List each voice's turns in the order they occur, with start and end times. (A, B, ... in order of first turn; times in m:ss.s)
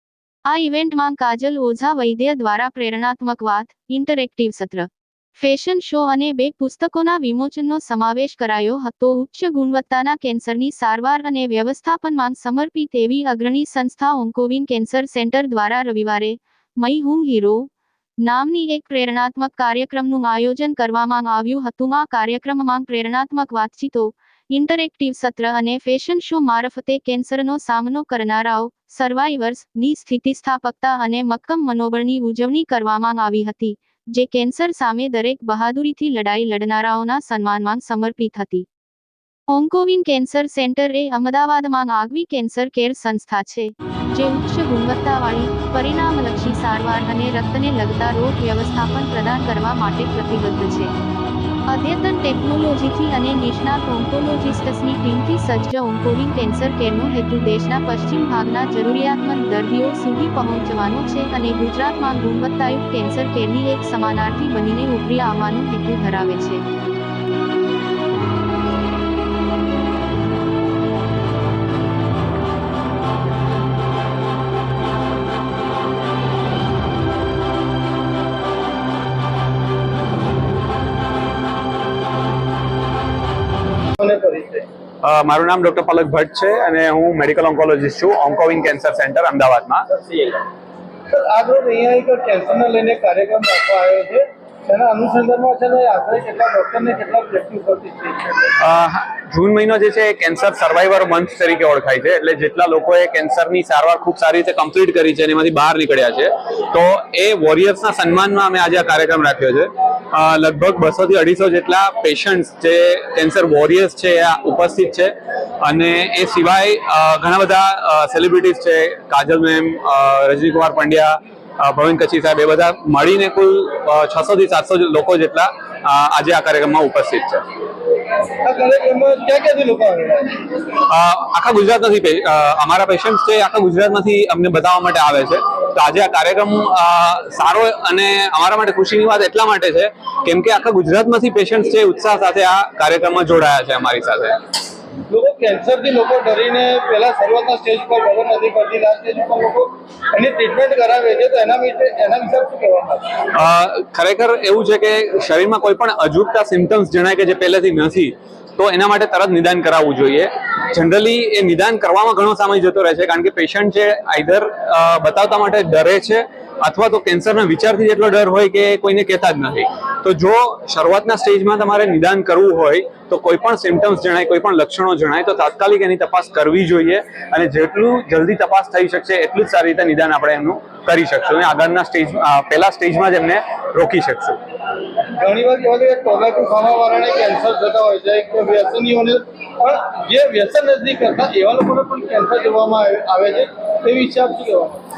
0:00.5-0:17.7 A
0:18.2-0:38.6 A
0:39.5-0:50.9 A
0:51.7-1:06.6 A
1:24.0-1:24.7 B
1:25.0-1:30.4 C
1:31.1-1:38.5 B
1:38.6-2:07.4 C
2:08.4-2:10.5 B
2:10.9-2:24.4 C
2:25.1-2:33.2 B
2:33.3-3:04.4 C
3:05.1-3:14.8 B